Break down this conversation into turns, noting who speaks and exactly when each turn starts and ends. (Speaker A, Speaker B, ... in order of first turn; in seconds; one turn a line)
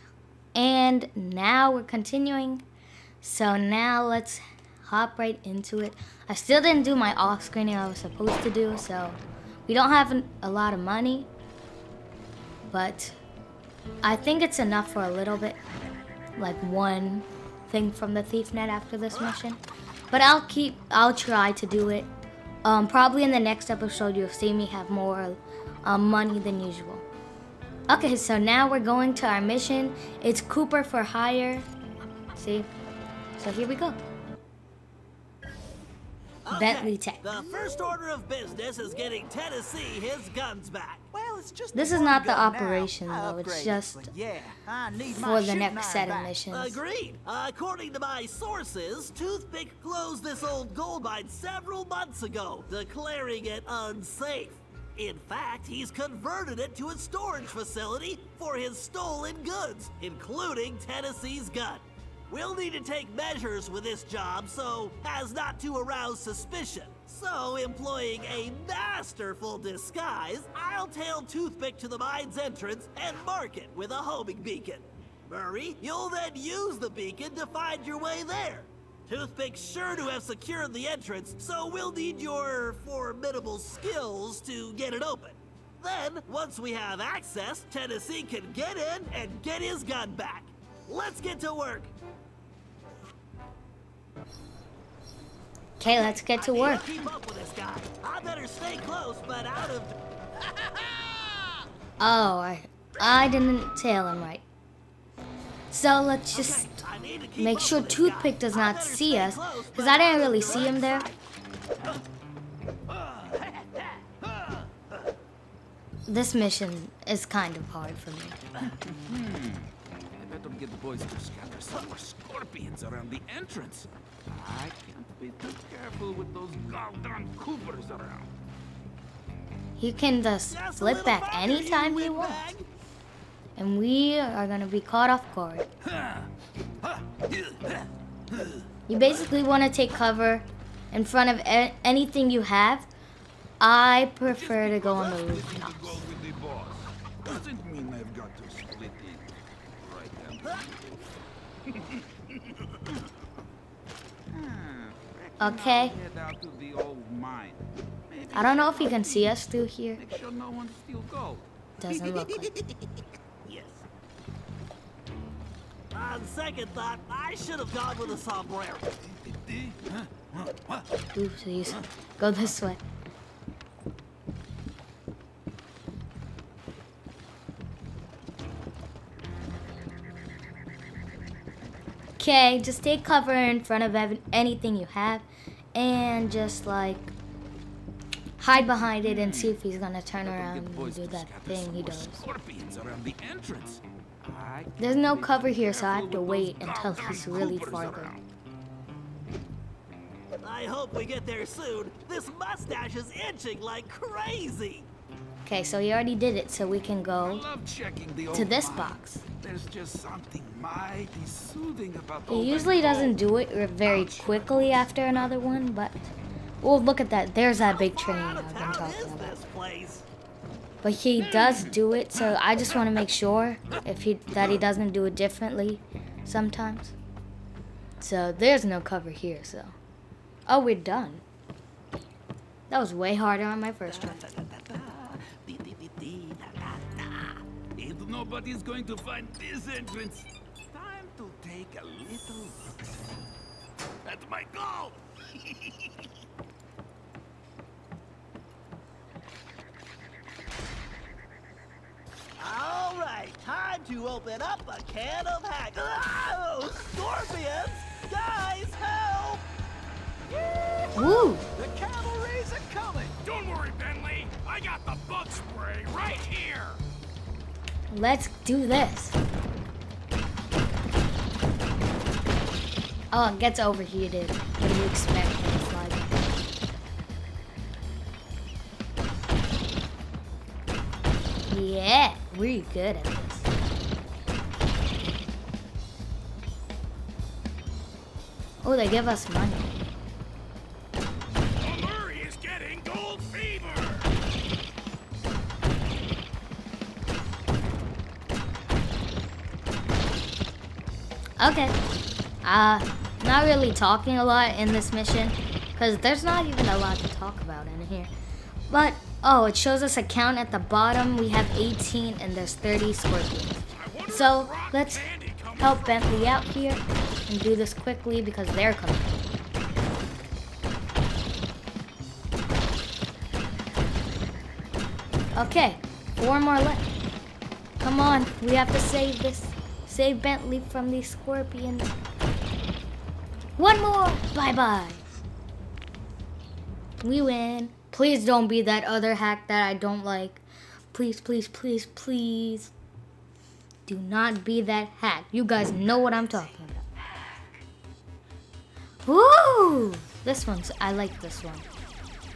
Speaker A: 0.5-2.6
Speaker A: 3.2-11.3
Speaker A: 12.7-13.2
Speaker A: 14.0-15.6
Speaker A: 16.4-19.6
Speaker A: 20.1-22.1
Speaker A: 22.6-27.0
Speaker A: 27.9-31.6
Speaker A: 32.4-32.7
Speaker A: 33.4-34.0
Speaker B: 36.4-41.0
Speaker A: 36.5-37.4
Speaker C: 41.1-46.3
Speaker A: 41.7-44.1
Speaker A: 45.2-46.8
Speaker B: 46.5-91.9
Speaker A: 95.8-96.9
Speaker B: 95.9-99.9
Speaker A: 102.0-104.4
Speaker A: 105.7-106.8
Speaker B: 106.3-111.2
Speaker A: 107.4-111.1
Speaker D: 112.9-114.5
Speaker A: 116.1-118.4
Speaker D: 118.8-128.3
Speaker A: 129.8-132.5
Speaker B: 130.4-132.7
Speaker A: 133.6-135.7
Speaker D: 135.9-136.3
Speaker D: 136.8-138.6
Speaker A: 138.9-142.9
Speaker A: 143.6-146.0
Speaker D: 144.3-151.0
Speaker D: 151.7-152.4
Speaker D: 154.3-161.5
Speaker A: 155.4-155.9
Speaker A: 158.3-160.0
Speaker A: 161.8-162.5
Speaker B: 163.4-163.8
Speaker B: 165.9-168.9
Speaker D: 169.2-170.8
Speaker A: 171.1-172.8
Speaker A: 182.2-187.1
Speaker A: 188.4-192.2
Speaker D: 188.8-189.6
Speaker D: 190.2-198.2
Speaker A: 194.8-198.1
Speaker B: 200.4-204.9
Speaker A: 205.4-207.5
Speaker D: 207.2-213.1
Speaker A: 208.3-209.2
Speaker A: 212.3-219.4
Speaker B: 217.6-220.0
Speaker A: 220.8-226.9
Speaker D: 221.4-221.7
Speaker A: 228.0-229.7
Speaker A: 230.5-231.2
Speaker A: 232.7-234.2
Speaker D: 234.2-243.0
Speaker D: 244.0-246.0
Speaker B: 252.4-259.4
Speaker C: 260.3-263.2
Speaker A: 260.9-261.4
Speaker E: 263.2-266.8
Speaker A: 267.9-269.2
Speaker A: 273.1-276.3
Speaker A: 281.5-283.5
Speaker A: 288.6-289.7
Speaker E: 291.6-294.1
Speaker A: 301.4-301.8
Speaker A: 302.4-308.1
Speaker A: 308.7-319.2
Speaker E: 313.8-316.4
Speaker A: 325.3-326.9
Speaker A: 327.8-331.9
Speaker A: 333.6-335.0
Speaker A: 337.0-342.7
Speaker A: 343.9-346.8
Speaker A: 349.0-351.6